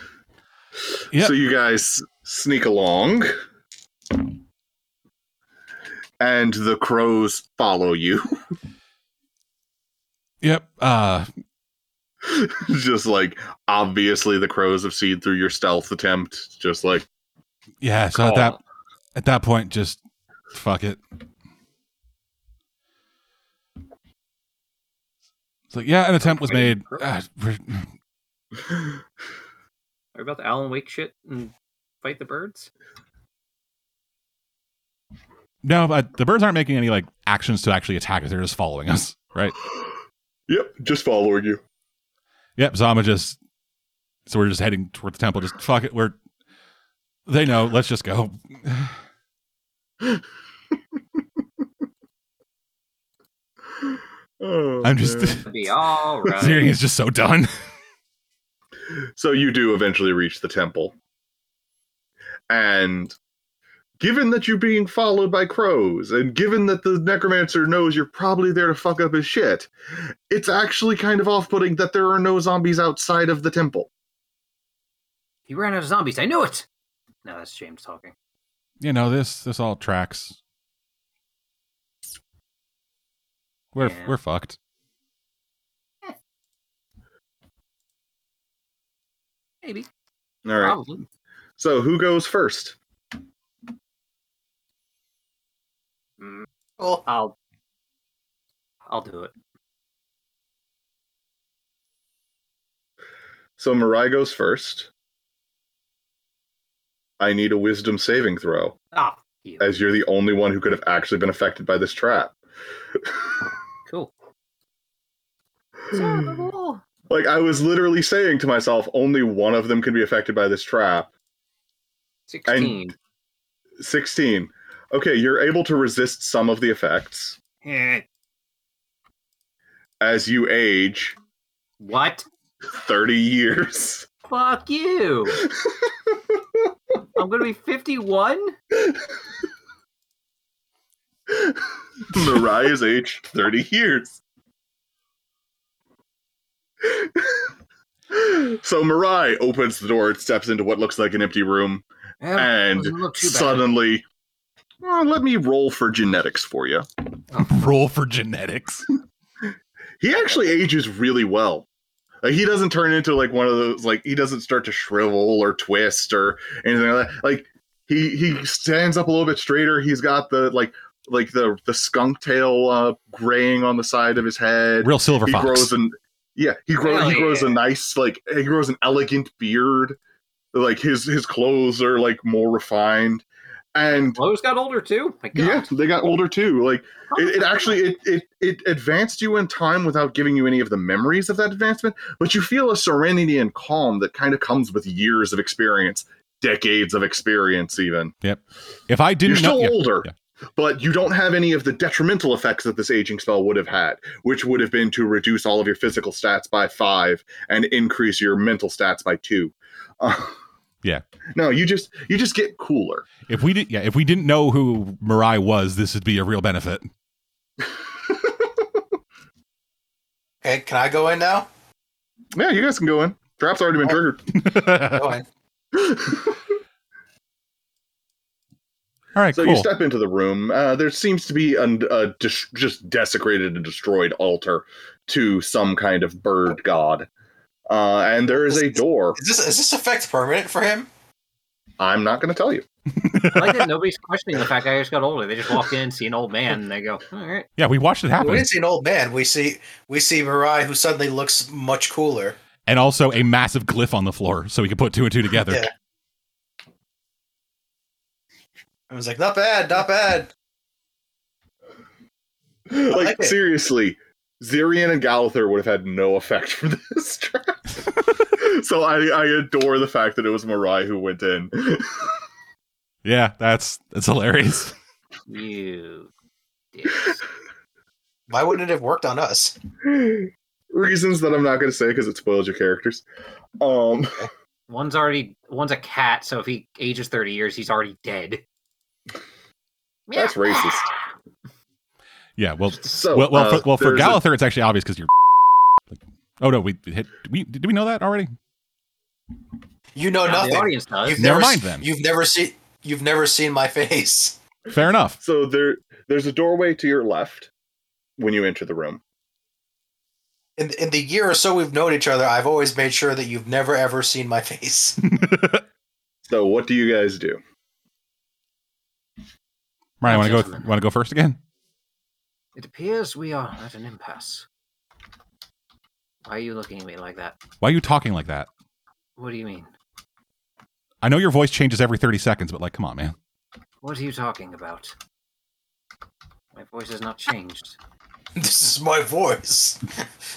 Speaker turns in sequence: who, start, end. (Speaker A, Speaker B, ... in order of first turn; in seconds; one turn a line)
Speaker A: 1.1-3.3
Speaker A: 6.2-8.3
Speaker B: 10.4-11.3
Speaker A: 12.2-17.1
Speaker B: 17.8-18.6
Speaker A: 18.2-18.5
Speaker B: 19.1-20.0
Speaker B: 20.5-21.0
Speaker B: 25.7-27.9
Speaker C: 26.2-27.1
Speaker C: 30.1-32.7
Speaker B: 35.6-39.6
Speaker A: 40.5-41.6
Speaker B: 42.6-43.4
Speaker B: 44.3-46.2
Speaker B: 47.3-48.9
Speaker A: 54.4-55.4
Speaker B: 54.8-55.5
Speaker C: 55.4-56.7
Speaker B: 56.3-57.5
Speaker A: 58.9-60.9
Speaker A: 62.5-63.1
Speaker A: 64.0-73.9
Speaker C: 75.5-76.7
Speaker C: 77.2-78.1
Speaker B: 78.8-80.4
Speaker B: 83.7-84.6
Speaker C: 83.8-84.1
Speaker A: 90.4-90.8
Speaker C: 90.6-91.0
Speaker A: 91.6-92.8
Speaker C: 96.2-96.5
Speaker D: 96.8-97.0
Speaker C: 97.0-97.3
Speaker C: 98.9-99.3
Speaker A: 103.6-104.9
Speaker A: 107.2-108.8
Speaker C: 108.9-109.6
Speaker A: 109.6-112.3
Speaker C: 113.9-114.1
Speaker A: 115.9-116.3
Speaker C: 115.9-116.8
Speaker A: 117.1-121.1
Speaker C: 122.3-122.9
Speaker A: 122.5-122.8
Speaker A: 123.8-127.4
Speaker C: 127.6-128.0
Speaker A: 130.0-131.2
Speaker C: 131.8-132.2
Speaker A: 132.7-134.1
Speaker C: 134.3-135.4
Speaker C: 137.1-138.6
Speaker A: 141.3-141.6
Speaker A: 142.1-144.2
Speaker A: 146.8-147.4
Speaker A: 148.1-151.8
Speaker C: 152.2-153.7
Speaker A: 152.3-154.0
Speaker A: 154.8-156.8
Speaker B: 157.3-158.8
Speaker A: 160.0-161.7
Speaker A: 162.2-180.0
Speaker B: 174.8-175.7
Speaker C: 176.8-177.6
Speaker A: 180.5-184.2
Speaker C: 183.9-185.7
Speaker A: 185.3-198.1
Speaker C: 187.1-187.8
Speaker B: 198.2-200.1
Speaker A: 199.2-210.4
Speaker A: 211.3-213.1
Speaker B: 213.3-216.9
Speaker D: 220.4-221.5
Speaker A: 222.3-224.3
Speaker B: 224.3-225.1
Speaker D: 224.7-225.2
Speaker A: 225.7-226.4
Speaker B: 229.1-229.7
Speaker A: 229.3-237.1
Speaker A: 237.7-239.2
Speaker D: 238.3-240.9
Speaker A: 241.8-242.6
Speaker B: 243.0-243.7
Speaker C: 243.3-247.5
Speaker B: 247.6-248.5
Speaker D: 248.2-252.3
Speaker B: 252.7-255.7
Speaker D: 255.3-255.7
Speaker D: 258.9-260.3
Speaker A: 262.7-267.7
Speaker D: 262.9-263.4
Speaker A: 268.3-272.1
Speaker B: 273.0-274.7
Speaker C: 275.2-276.1
Speaker C: 276.7-277.2
Speaker D: 278.3-279.6
Speaker A: 279.8-283.0
Speaker A: 283.6-284.2
Speaker C: 284.7-288.4
Speaker C: 290.1-291.0
Speaker A: 290.1-290.9
Speaker B: 292.4-295.1
Speaker A: 292.8-294.2
Speaker B: 295.9-298.3
Speaker D: 299.9-304.4
Speaker C: 300.2-301.2
Speaker B: 301.2-301.9
Speaker B: 304.7-305.2
Speaker A: 305.2-307.5
Speaker A: 308.2-309.0
Speaker D: 310.6-315.0
Speaker B: 315.0-315.6
Speaker A: 316.3-317.4
Speaker B: 320.0-321.4
Speaker C: 320.0-320.7
Speaker C: 322.5-324.4
Speaker C: 326.2-327.4
Speaker B: 327.6-328.5
Speaker C: 329.2-329.7
Speaker B: 331.0-333.1
Speaker C: 333.8-334.9
Speaker C: 336.5-337.8
Speaker D: 338.3-340.1